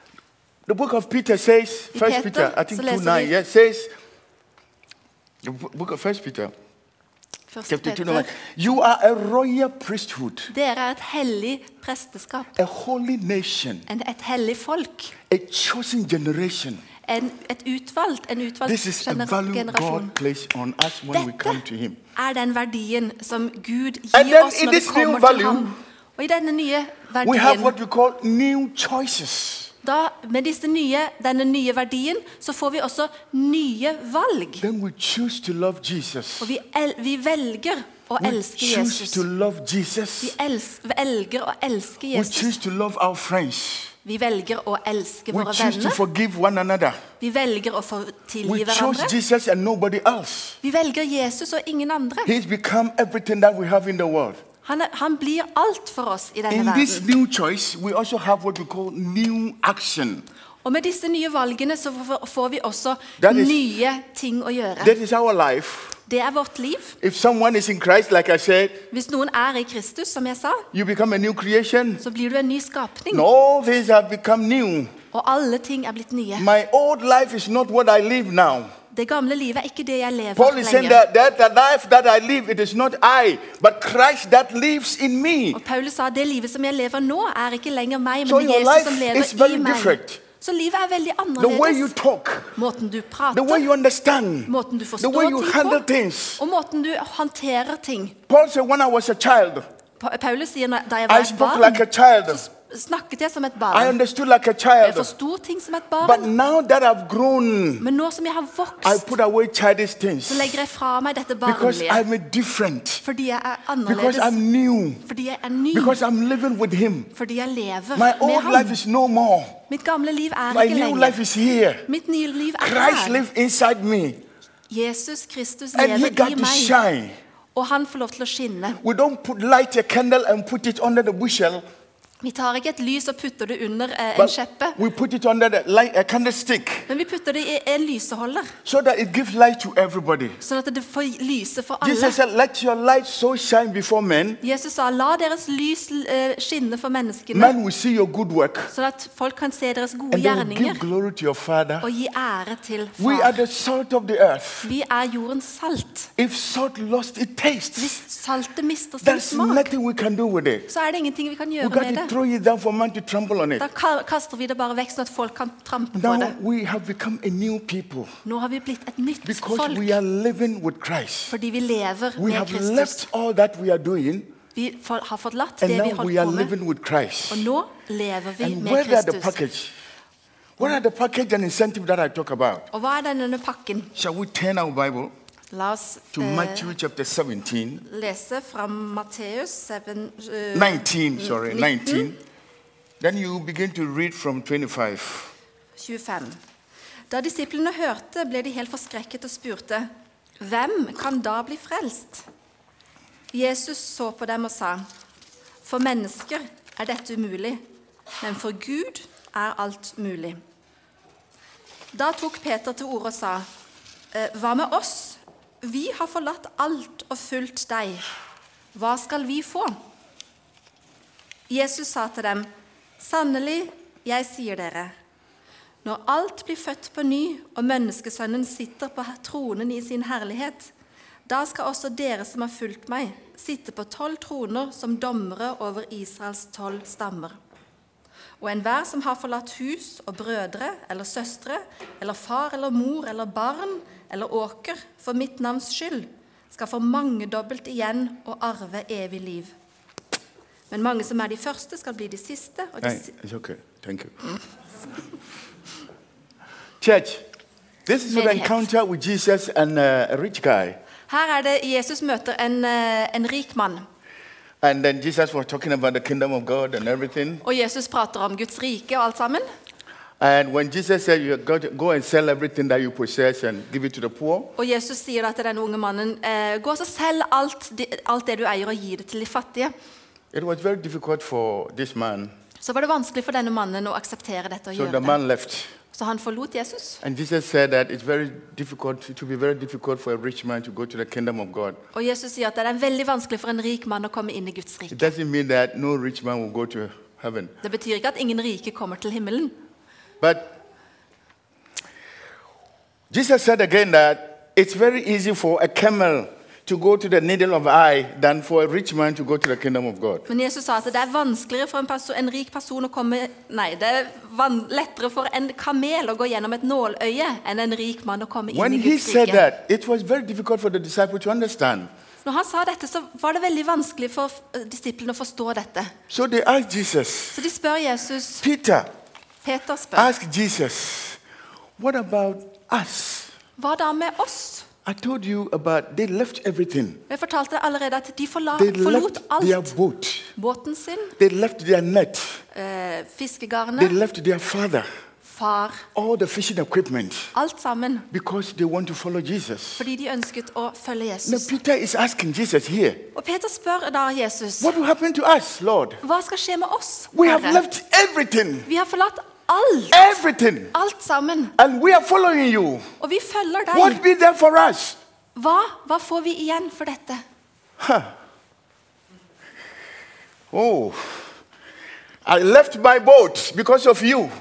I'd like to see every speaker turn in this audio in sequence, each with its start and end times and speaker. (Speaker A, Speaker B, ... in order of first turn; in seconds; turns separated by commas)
Speaker A: 0.7-3.9, Speaker B: 1.9-3.3, Speaker A: 5.4-6.5, Speaker B: 7.5-8.3, Speaker A: 7.7-10.5, Speaker B: 10.5-12.6, Speaker A: 12.6-13.9, Speaker B: 13.9-15.1, Speaker A: 15.3-16.8, Speaker B: 17.1-20.1, Speaker A: 18.6-22.0, Speaker B: 21.1-21.6, Speaker B: 22.1-27.7, Speaker A: 24.1-25.8, Speaker A: 27.2-29.7, Speaker B: 29.8-34.6, Speaker A: 34.6-36.5, Speaker B: 36.4-39.2, Speaker A: 38.2-40.3, Speaker B: 40.2-42.5, Speaker A: 42.1-43.9, Speaker B: 44.0-46.0, Speaker A: 45.3-47.0, Speaker B: 47.2-49.2, Speaker A: 48.4-50.6, Speaker B: 50.6-52.3, Speaker A: 52.2-54.4, Speaker B: 54.6-57.1, Speaker A: 56.5-60.2, Speaker B: 60.6-64.9, Speaker A: 63.2-63.6, Speaker A: 64.8-66.0, Speaker B: 66.1-67.0, Speaker A: 67.0-68.8, Speaker B: 68.9-70.7, Speaker A: 70.7-72.0, Speaker B: 72.0-73.2, Speaker A: 73.1-74.9, Speaker B: 75.1-76.5, Speaker A: 76.4-78.7, Speaker B: 78.9-81.0, Speaker A: 80.3-85.6, Speaker B: 85.5-91.9, Speaker A: 88.2-90.2, Speaker A: 91.4-92.6, Speaker B: 92.5-93.7, Speaker A: 93.3-96.4, Speaker B: 94.5-95.8, Speaker B: 96.4-98.2, Speaker A: 98.3-99.6, Speaker B: 100.0-104.0, Speaker A: 101.1-102.5, Speaker A: 103.7-105.1, Speaker B: 104.8-106.3, Speaker A: 106.0-107.9, Speaker B: 107.8-109.1, Speaker A: 108.8-110.6, Speaker B: 110.3-112.0, Speaker A: 111.4-113.0, Speaker B: 113.0-114.3, Speaker A: 113.9-115.0, Speaker B: 115.0-116.0, Speaker A: 115.7-117.1, Speaker B: 117.1-118.8, Speaker A: 117.9-119.6, Speaker B: 119.7-121.2, Speaker A: 120.5-121.8, Speaker B: 121.9-123.2, Speaker A: 122.6-124.2, Speaker B: 124.7-126.8, Speaker A: 125.7-127.2, Speaker B: 127.5-128.8, Speaker A: 128.8-131.6, Speaker B: 132.2-134.8, Speaker A: 134.1-136.9, Speaker B: 136.9-138.5, Speaker A: 138.6-140.4, Speaker B: 140.4-142.2, Speaker A: 141.8-144.4, Speaker B: 144.4-147.5, Speaker A: 147.3-148.7, Speaker B: 148.7-150.8, Speaker A: 150.1-151.9, Speaker B: 151.8-153.4, Speaker A: 153.0-154.7, Speaker B: 154.6-156.1, Speaker A: 156.2-158.0, Speaker B: 157.8-159.7, Speaker A: 159.0-160.7, Speaker B: 160.7-162.1, Speaker A: 161.6-163.7, Speaker B: 163.6-166.3, Speaker A: 165.9-168.1, Speaker B: 168.2-170.0, Speaker A: 169.2-171.3, Speaker B: 171.3-173.1, Speaker A: 172.2-174.3, Speaker B: 174.5-176.5, Speaker A: 175.6-177.4, Speaker B: 177.3-179.4, Speaker A: 178.4-179.7, Speaker A: 180.6-182.7, Speaker B: 182.7-183.9, Speaker A: 183.9-185.1, Speaker B: 185.5-186.7, Speaker A: 186.1-187.8, Speaker B: 187.8-192.1, Speaker A: 190.5-192.2, Speaker A: 193.0-195.3, Speaker B: 195.8-196.4, Speaker B: 197.1-199.9, Speaker B: 200.4-202.2, Speaker B: 203.3-204.8, Speaker B: 205.6-207.6, Speaker B: 208.2-210.4, Speaker B: 211.9-213.4, Speaker B: 214.1-218.0, Speaker B: 218.7-219.8, Speaker B: 221.5-222.5, Speaker B: 223.0-224.9, Speaker B: 225.8-230.7, Speaker B: 231.2-237.4, Speaker B: 238.4-249.5, Speaker B: 250.7-253.1, Speaker A: 252.8-254.2, Speaker A: 256.8-257.2, Speaker A: 257.9-260.8, Speaker B: 258.1-258.7, Speaker B: 261.1-263.9, Speaker A: 264.6-267.4, Speaker B: 267.4-269.4, Speaker A: 270.2-274.5, Speaker B: 274.6-279.7, Speaker A: 280.3-282.3, Speaker B: 282.6-285.2, Speaker A: 284.7-285.7, Speaker B: 285.9-287.0, Speaker A: 287.0-291.8, Speaker B: 291.9-295.1, Speaker A: 294.9-297.5, Speaker B: 297.6-299.6, Speaker A: 300.2-300.5, Speaker A: 303.1-310.2, Speaker B: 310.3-319.4, Speaker A: 318.5-321.9, Speaker B: 322.2-325.9, Speaker A: 326.1-327.4, Speaker B: 327.3-328.4, Speaker A: 328.4-328.9, Speaker B: 329.4-330.1, Speaker A: 329.9-331.2, Speaker A: 331.8-333.3, Speaker B: 333.6-334.7, Speaker A: 334.9-337.0, Speaker B: 337.1-339.7, Speaker A: 338.5-340.3, Speaker B: 340.4-341.1, Speaker A: 341.2-342.4, Speaker B: 342.5-343.9, Speaker A: 343.8-344.9, Speaker B: 345.2-345.9, Speaker A: 345.9-347.3, Speaker B: 347.3-348.1, Speaker A: 348.1-349.9, Speaker B: 349.8-351.6, Speaker A: 351.2-353.0, Speaker B: 353.1-354.7, Speaker A: 354.6-356.0, Speaker B: 356.0-357.6, Speaker A: 357.1-358.7, Speaker B: 358.6-361.5, Speaker A: 359.9-360.7, Speaker A: 361.6-362.8, Speaker B: 363.0-364.0, Speaker A: 363.7-365.0, Speaker B: 365.3-367.2, Speaker A: 367.8-368.1, Speaker A: 370.5-371.3, Speaker A: 372.2-374.3